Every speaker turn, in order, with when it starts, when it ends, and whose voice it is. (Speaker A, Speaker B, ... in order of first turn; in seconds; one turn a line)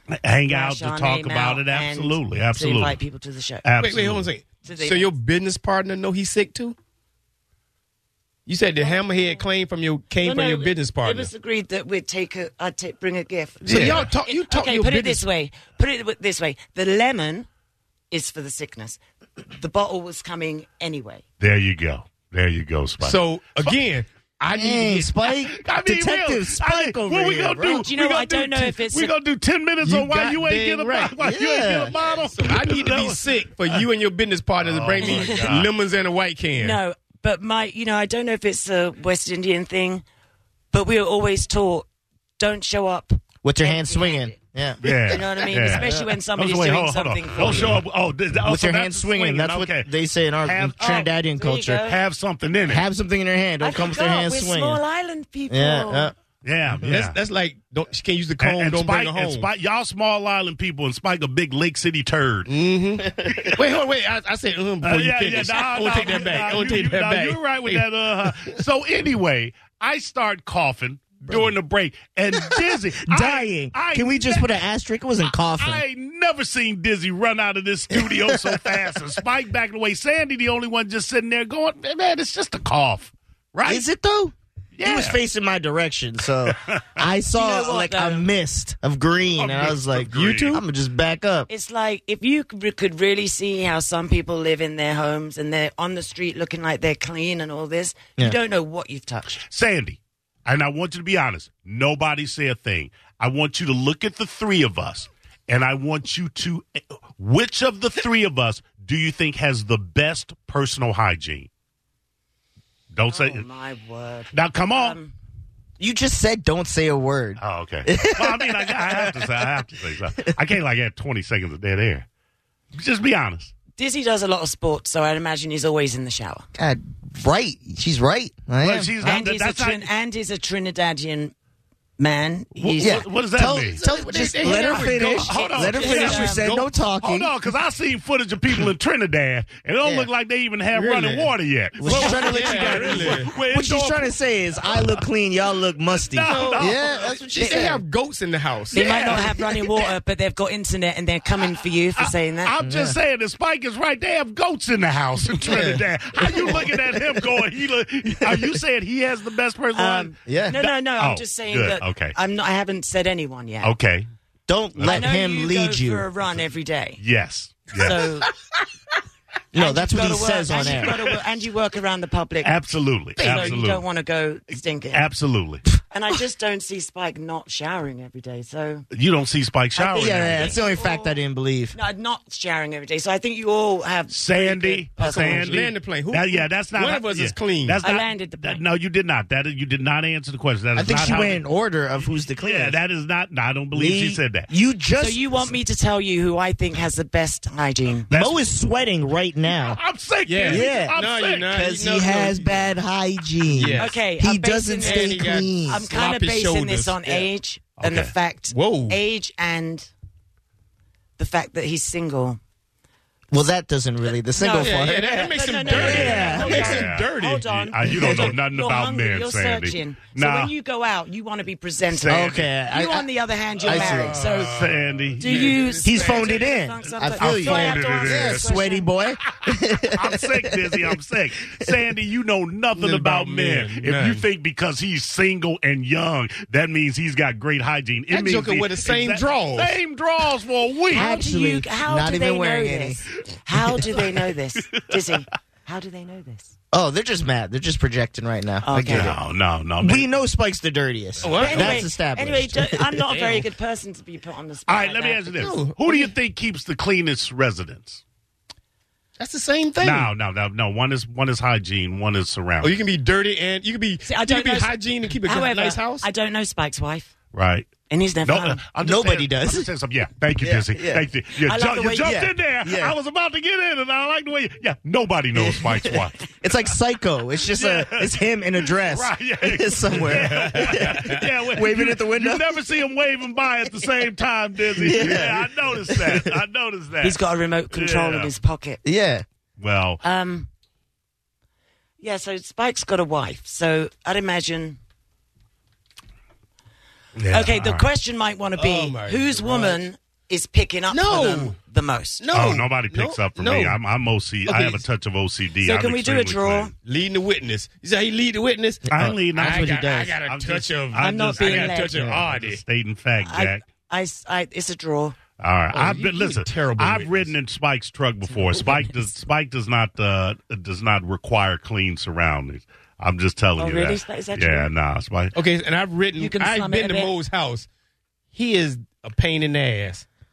Speaker A: 0.1-3.0
Speaker B: 0.4-3.6
Speaker A: 3.6-4.3
Speaker C: 3.8-6.7
Speaker B: 4.6-5.1
Speaker C: 8.4-11.3
Speaker B: 8.8-9.5
Speaker B: 10.2-17.5
Speaker A: 13.6-14.1
Speaker C: 13.7-15.2
Speaker B: 18.1-21.2
Speaker A: 21.4-23.8
Speaker C: 23.0-25.1
Speaker D: 24.5-27.8
Speaker A: 25.3-33.9
Speaker B: 27.6-29.1
Speaker C: 29.8-31.1
Speaker D: 31.2-31.9
Speaker C: 31.9-36.8
Speaker A: 34.6-35.7
Speaker B: 35.0-35.4
Speaker B: 36.5-40.0
Speaker B: 40.7-41.9
Speaker B: 42.4-44.3
Speaker D: 43.4-46.1
Speaker A: 44.8-49.9
Speaker B: 45.1-47.8
Speaker D: 48.4-51.9
Speaker A: 50.4-50.9
Speaker B: 50.8-52.0
Speaker A: 51.8-52.9
Speaker D: 52.6-54.8
Speaker B: 53.6-56.1
Speaker D: 55.5-56.1
Speaker A: 56.4-57.2
Speaker C: 56.7-59.5
Speaker A: 58.4-62.5
Speaker C: 62.5-67.8
Speaker A: 63.2-63.6
Speaker A: 64.8-74.5
Speaker D: 72.6-75.8
Speaker A: 75.6-83.8
Speaker D: 77.9-78.6
Speaker D: 83.6-91.5
Speaker A: 84.7-85.2
Speaker A: 86.4-86.8
Speaker B: 87.3-88.3
Speaker A: 89.4-90.6
Speaker C: 90.1-90.6
Speaker B: 91.5-99.4
Speaker A: 99.5-111.5
Speaker A: 112.9-113.5
Speaker B: 113.1-115.1
Speaker A: 114.3-115.0
Speaker D: 115.8-119.3
Speaker A: 117.4-122.0
Speaker A: 122.7-123.5
Speaker B: 123.8-126.5
Speaker D: 126.5-129.2
Speaker A: 128.6-129.9
Speaker B: 129.0-131.3
Speaker B: 132.0-133.1
Speaker A: 132.5-133.8
Speaker D: 132.8-137.3
Speaker C: 133.8-136.7
Speaker B: 134.4-136.5
Speaker A: 135.1-136.3
Speaker A: 137.0-145.0
Speaker D: 139.8-140.1
Speaker C: 140.7-143.3
Speaker D: 141.8-147.8
Speaker A: 146.0-147.6
Speaker C: 146.3-146.8
Speaker C: 147.3-148.8
Speaker B: 148.7-152.5
Speaker A: 148.7-149.4
Speaker A: 152.0-162.2
Speaker D: 152.6-152.9
Speaker D: 155.4-157.2
Speaker D: 158.2-158.6
Speaker B: 159.7-163.7
Speaker D: 160.2-160.6
Speaker A: 163.6-164.1
Speaker D: 164.5-166.1
Speaker A: 164.7-165.1
Speaker B: 164.9-167.0
Speaker A: 167.0-168.0
Speaker B: 167.7-168.3
Speaker D: 169.5-171.0
Speaker B: 169.5-172.6
Speaker A: 170.7-171.1
Speaker A: 172.4-173.8
Speaker B: 173.2-175.1
Speaker D: 173.2-173.6
Speaker A: 174.9-175.6
Speaker B: 175.9-178.8
Speaker A: 178.9-180.6
Speaker B: 179.7-181.2
Speaker D: 179.9-181.8
Speaker B: 181.7-185.5
Speaker A: 184.1-191.4
Speaker C: 185.0-187.8
Speaker B: 187.8-188.6
Speaker D: 190.8-192.8
Speaker A: 192.4-194.5
Speaker D: 193.7-195.6
Speaker B: 194.9-198.1
Speaker A: 198.1-198.5
Speaker D: 198.1-199.8
Speaker A: 199.4-201.5
Speaker C: 200.2-202.7
Speaker D: 200.4-201.0
Speaker D: 201.5-205.8
Speaker C: 203.5-204.0
Speaker B: 203.8-209.9
Speaker C: 204.8-207.3
Speaker A: 207.8-208.1
Speaker C: 208.5-209.0
Speaker B: 211.2-212.4
Speaker D: 213.3-216.8
Speaker B: 214.3-228.9
Speaker C: 214.6-218.3
Speaker A: 215.7-220.5
Speaker A: 221.9-222.5
Speaker D: 222.1-223.1
Speaker C: 223.6-226.4
Speaker D: 223.6-224.2
Speaker A: 224.2-225.7
Speaker D: 225.8-230.9
Speaker A: 226.9-228.5
Speaker A: 229.3-241.1
Speaker C: 232.7-234.2
Speaker C: 238.1-239.8
Speaker D: 240.9-243.0
Speaker B: 240.9-246.5
Speaker A: 244.7-245.2
Speaker D: 246.7-249.2
Speaker B: 248.6-249.2
Speaker A: 248.9-250.2
Speaker D: 249.8-253.0
Speaker A: 251.2-251.6
Speaker C: 251.2-251.8
Speaker B: 251.4-255.4
Speaker C: 253.1-253.5
Speaker A: 254.7-258.0
Speaker C: 255.3-256.1
Speaker C: 259.2-260.1
Speaker A: 259.8-262.8
Speaker C: 262.6-266.1
Speaker B: 264.0-267.1
Speaker A: 267.3-267.7
Speaker B: 267.9-268.6
Speaker A: 268.2-276.3
Speaker D: 268.8-269.7
Speaker D: 270.4-271.1
Speaker B: 271.4-272.2
Speaker D: 272.0-272.9
Speaker D: 275.3-282.6
Speaker A: 277.5-288.3
Speaker C: 279.9-281.1
Speaker D: 284.7-286.3
Speaker B: 287.0-288.8
Speaker D: 288.8-289.2
Speaker A: 289.6-290.0
Speaker B: 290.0-290.5
Speaker B: 292.0-294.8
Speaker A: 297.1-297.9
Speaker B: 297.3-302.3
Speaker C: 298.5-299.8
Speaker C: 300.9-301.5
Speaker C: 302.2-303.8
Speaker A: 302.3-306.7
Speaker C: 304.4-304.8
Speaker B: 305.6-306.7
Speaker C: 306.8-312.6
Speaker D: 308.9-309.9
Speaker A: 308.9-313.6
Speaker B: 311.0-312.1
Speaker D: 311.9-312.2
Speaker B: 313.2-315.1
Speaker A: 315.4-325.4
Speaker C: 315.7-317.3
Speaker B: 318.3-319.1
Speaker B: 323.6-324.7
Speaker C: 325.3-327.7
Speaker B: 326.2-327.1
Speaker C: 328.3-330.0